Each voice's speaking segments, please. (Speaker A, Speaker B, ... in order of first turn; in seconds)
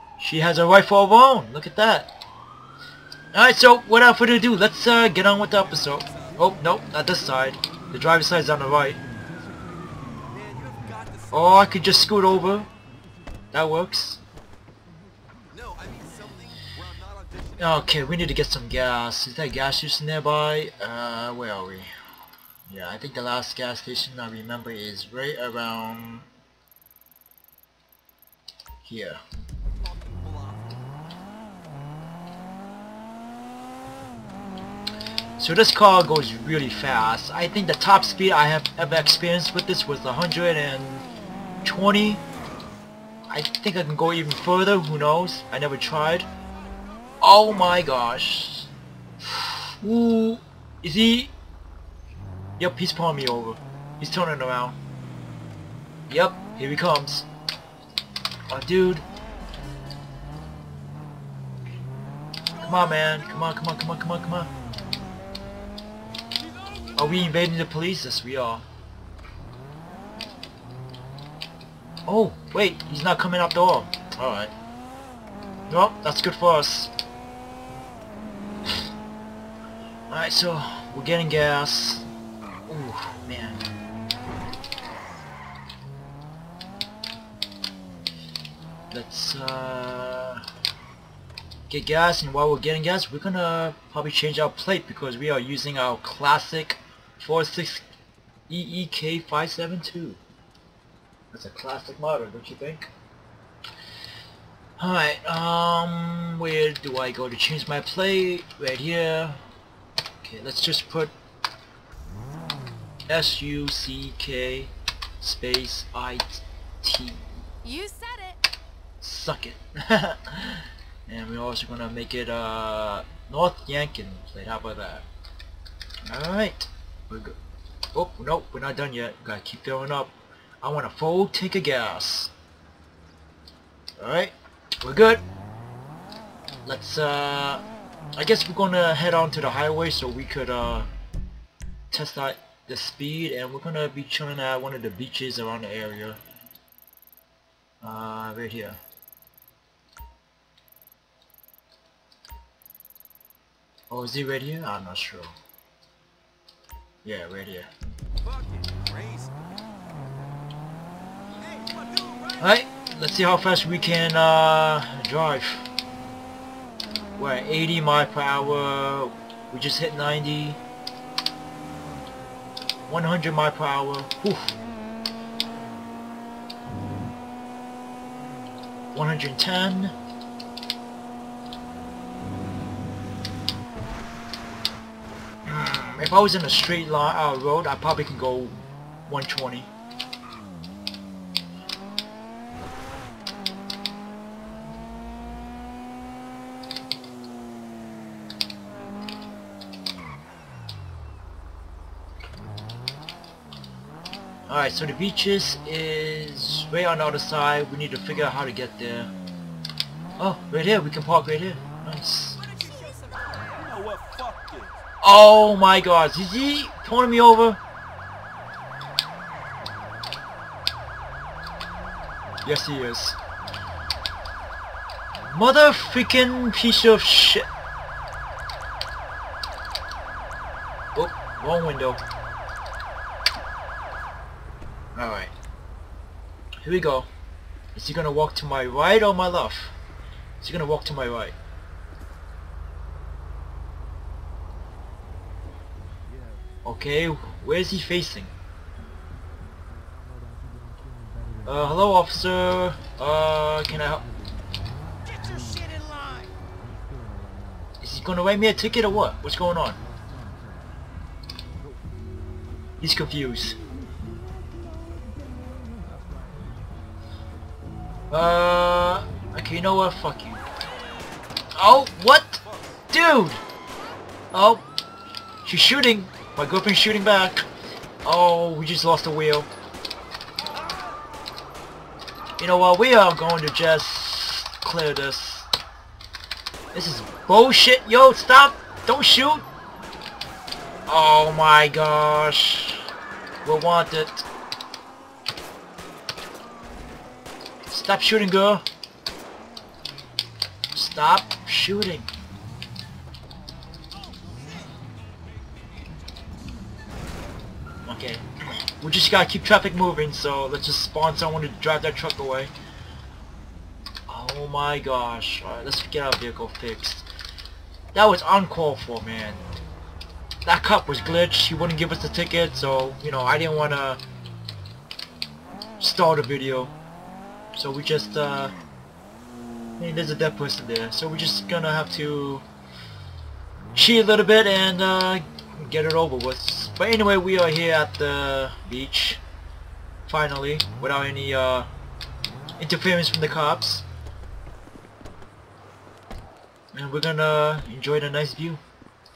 Speaker A: 0.2-2.1, 3.3-9.0, 11.3-12.7, 13.5-14.2, 17.6-21.9, 22.7-26.3, 28.8-29.2, 35.4-41.1, 41.6-42.2, 43.3-46.3, 47.2-48.7, 49.2-51.3, 52.6-54.8, 56.1-57.2, 58.5-59.0, 62.6-64.5, 67.0-68.6, 72.1-74.5, 75.7-76.9, 80.1-82.1, 82.7-83.7, 88.9-90.4, 91.7-97.8, 98.5-100.2, 101.3-102.9, 104.8-109.4, 110.2-111.1, 113.1-117.3, 119.0-125.1, 126.1-127.4, 127.9-132.3, 134.0-135.2, 136.7-137.6, 138.2-140.9, 141.9-146.2, 147.8-148.8, 153.9-155.3, 157.1-157.7, 162.4-165.7, 167.2-170.6, 172.9-174.6, 178.9-179.9, 185.4-189.7, 204.5-209.1, 210.2-212.4, 215.0-217.6, 222.4-223.2, 225.2-227.5, 230.9-232.0, 234.9-235.3, 236.6-237.1, 237.8-239.7, 240.4-241.3, 246.6-248.3, 251.4-254.0, 257.8-259.8, 262.8-263.6, 268.1-270.4, 271.5-273.4, 274.3-274.6, 275.4-277.5, 278.0-279.5, 282.4-285.5, 286.7-289.5, 290.9-292.9, 293.4-294.2, 297.7-298.6, 300.8-302.1, 307.9-308.2, 308.8-312.5, 314.1-317.1, 317.9-319.4, 320.4-324.0, 325.8-326.7, 327.5-328.5, 329.8-332.4, 333.7-339.2, 340.1-341.7, 342.6-343.9, 346.7-348.6
Speaker B: 5.7-6.5, 10.3-11.9, 15.5-18.0, 29.8-30.8, 158.2-159.4, 161.3-162.6, 212.4-214.8, 255.1-256.3, 280.5-281.0
Speaker C: 117.6-118.4, 212.4-213.7